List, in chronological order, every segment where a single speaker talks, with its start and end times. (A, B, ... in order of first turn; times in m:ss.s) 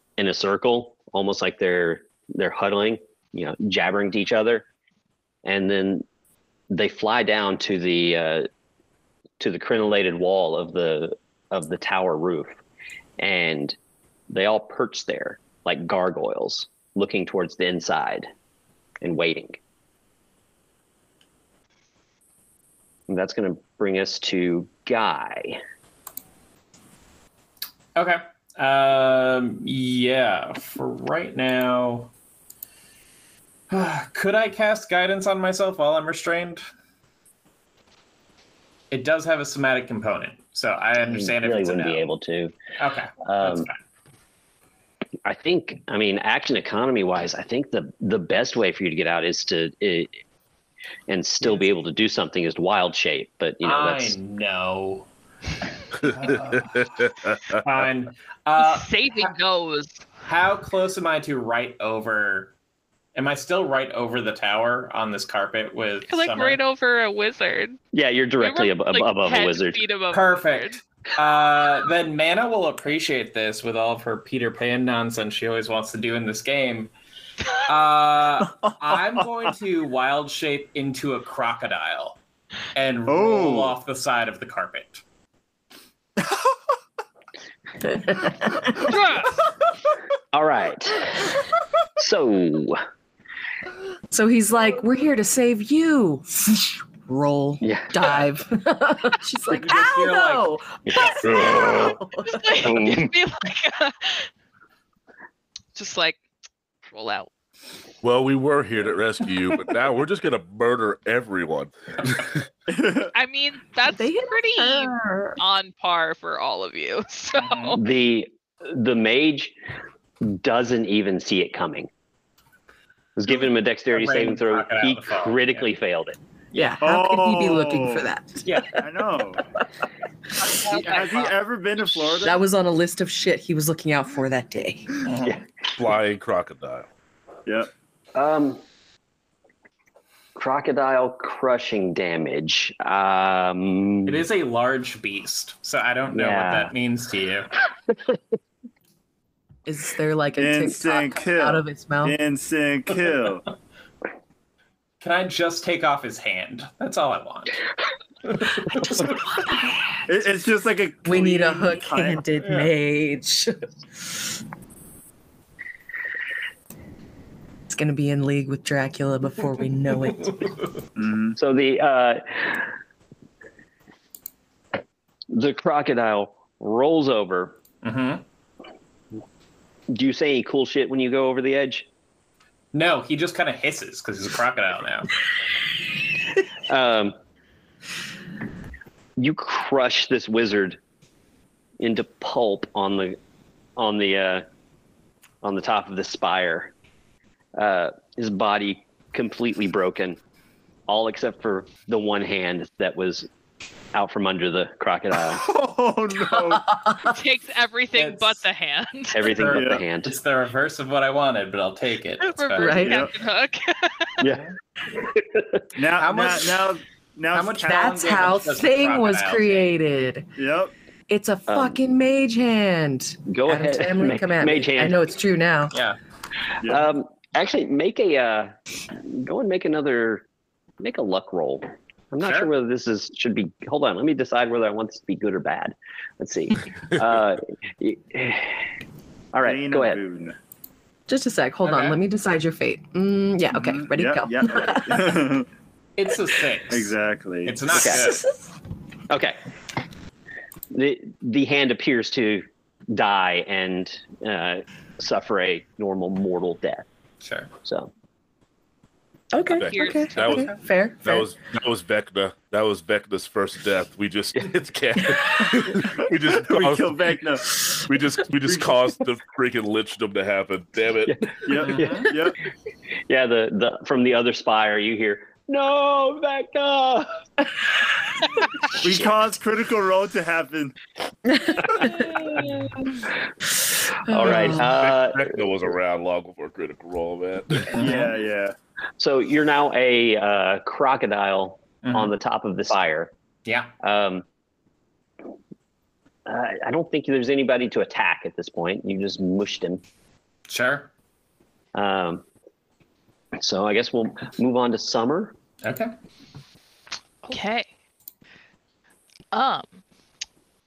0:00.2-0:04.7 A
0:05.4-0:06.1 A
0:06.7-0:08.5 A
0:09.4-0:12.6 A
0:13.2-0:13.8 A
0:14.3-0:18.3 A
0:19.0-0:19.6 A
0:23.1-0:25.6 A
0:28.0-0:32.1 B
0:33.7-0:36.7 B
0:38.9-0:42.0 B
0:41.0-0:42.6 A
0:42.8-0:43.8 B
0:43.2-0:43.7 A
0:45.2-0:50.2 A
0:51.1-0:54.2 A
0:53.6-0:55.1 B
0:56.0-0:59.3 B
0:56.1-0:57.6 C
0:58.6-1:00.1 D
1:00.2-1:02.5 B
1:03.2-1:06.6 B
1:06.1-1:07.8 D
1:07.9-1:09.8 A
1:08.4-1:10.8 D
1:10.1-1:16.9 B
1:17.7-1:22.2 B
1:18.5-1:19.5 E
1:22.8-1:25.0 B
1:23.1-1:23.8 E
1:26.2-1:26.5 E
1:27.8-1:29.0 F
1:28.8-1:29.4 D
1:30.3-1:31.4 A
1:32.0-1:32.8 A
1:34.1-1:42.5 F
1:37.6-1:38.0 A
1:39.5-1:40.5 B
1:40.9-1:42.0 A
1:42.2-1:44.3 D
1:42.6-1:43.1 A
1:45.8-1:46.2 D
1:46.9-1:47.3 D
1:48.0-1:52.4 C
1:52.7-1:53.1 E
1:53.1-1:57.8 D
1:53.9-1:55.4 F
1:57.3-1:57.8 B
1:57.8-1:59.6 A
2:00.2-2:01.9 A
2:03.2-2:06.2 A
2:03.3-2:05.7 B
2:06.5-2:06.8 B
2:06.6-2:08.6 F
2:06.8-2:08.1 E
2:08.5-2:08.8 B
2:08.8-2:09.4 E
2:10.5-2:11.3 B
2:10.8-2:12.4 E
2:10.9-2:11.2 D
2:12.2-2:15.0 F
2:15.1-2:15.4 B
2:15.8-2:16.9 C
2:18.2-2:18.6 A
2:20.4-2:24.3 A
2:24.1-2:27.5 B
2:26.1-2:26.7 A
2:27.9-2:28.2 A
2:29.7-2:32.2 F
2:30.4-2:33.4 E
2:35.0-2:37.6 B
2:38.4-2:39.1 B
2:38.7-2:40.3 F
2:40.1-2:42.3 E
2:41.0-2:44.2 F
2:47.7-2:50.5 F
2:51.0-2:51.4 E
2:51.4-2:52.7 A
2:55.3-2:57.6 A
2:57.8-2:58.2 B
2:59.9-3:01.9 A
3:02.7-3:05.1 B
3:06.7-3:07.2 A
3:09.2-3:10.8 A
3:11.8-3:13.2 A
3:13.8-3:14.4 A
3:15.4-3:16.7 A
3:17.6-3:20.2 A
3:20.9-3:23.3 A
3:23.9-3:25.4 A
3:25.3-3:26.6 E
3:26.2-3:27.2 F
3:27.0-3:29.4 D
3:28.0-3:28.4 B
3:29.1-3:30.2 A
3:29.3-3:32.8 B
3:29.5-3:29.8 E
3:32.2-3:34.2 D
3:32.6-3:33.1 F
3:32.8-3:33.1 E
3:34.2-3:35.7 A
3:35.8-3:37.9 E
3:36.0-3:36.7 B
3:37.3-3:39.6 B
3:37.6-3:40.3 F
3:40.4-3:40.7 E
3:41.1-3:45.8 F
3:41.5-3:41.8 A
3:43.3-3:45.1 A
3:45.7-3:46.0 B
3:46.6-3:50.3 A
3:50.8-3:58.6 A
3:52.2-3:52.5 B
3:59.3-4:00.0 A
3:59.4-4:00.4 E
4:01.1-4:05.2 F
4:01.6-4:02.0 B
4:03.5-4:05.5 E
4:06.0-4:08.2 B
4:06.7-4:07.6 E
4:07.7-4:08.5 F
4:07.8-4:08.1 A
4:09.1-4:09.4 A
4:10.7-4:16.8 A
4:17.2-4:17.5 B
4:17.6-4:17.9 A
4:19.3-4:21.3 F
4:19.5-4:20.6 D
4:19.6-4:27.2 C
4:25.0-4:25.3 F
4:26.2-4:27.5 E
4:27.8-4:31.2 C
4:31.0-4:32.1 A
4:31.4-4:32.4 E
4:31.6-4:32.1 B
4:33.1-4:37.1 A
4:38.8-4:40.7 E
4:41.3-4:43.0 F
4:44.1-4:44.7 F
4:44.1-4:45.6 A
4:44.3-4:47.7 C
4:47.7-4:48.1 B
4:47.8-4:48.6 E
4:49.0-4:53.1 A
4:51.8-4:52.1 B
4:53.4-4:53.7 B
4:53.8-4:54.2 A
4:56.3-4:59.8 A
5:00.5-5:00.9 B
5:01.8-5:02.2 A
5:03.4-5:05.4 A
5:05.6-5:05.9 B
5:07.3-5:07.7 D
5:09.3-5:09.8 D